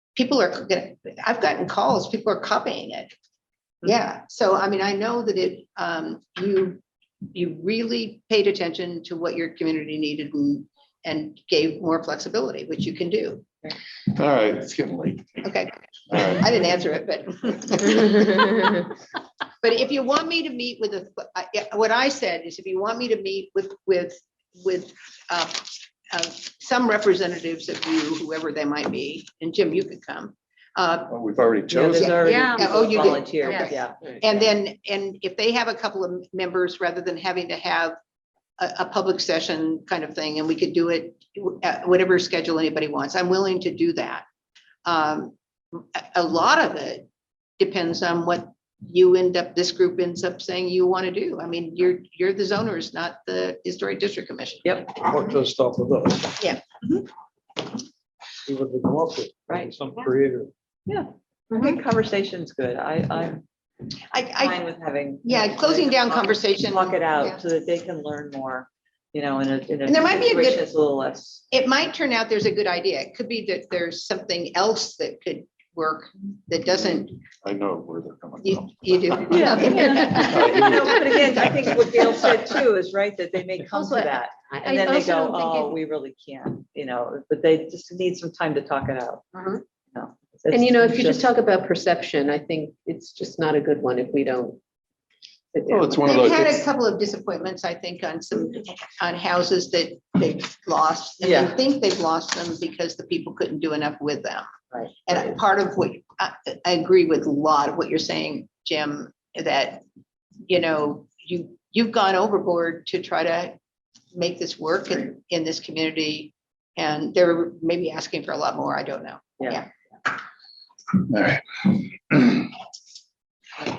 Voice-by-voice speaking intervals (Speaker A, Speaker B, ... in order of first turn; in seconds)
Speaker A: 0.1-3.1, 3.8-6.8, 7.3-13.5, 15.4-18.9, 19.6-31.1, 31.9-38.0, 38.6-44.2, 44.9-47.1, 47.6-54.6, 64.1-64.6, 65.2-67.4, 69.9-70.6, 71.5-77.2, 78.4-80.6, 96.0-104.5, 105.1-109.8, 110.5-113.6, 114.1-119.7
Speaker B: 14.1-15.6, 16.1-16.5, 31.1-32.5, 77.4-81.5, 95.7-96.6, 121.0-122.5
Speaker C: 31.7-34.4, 54.6-54.9, 60.9-63.4, 64.4-71.5, 79.3-89.2, 89.9-91.3, 101.2-101.5
Speaker D: 32.2-34.1, 79.7-80.8, 83.7-85.7, 90.5-94.6, 95.5-96.2
Speaker E: 55.0-56.5, 58.5-60.5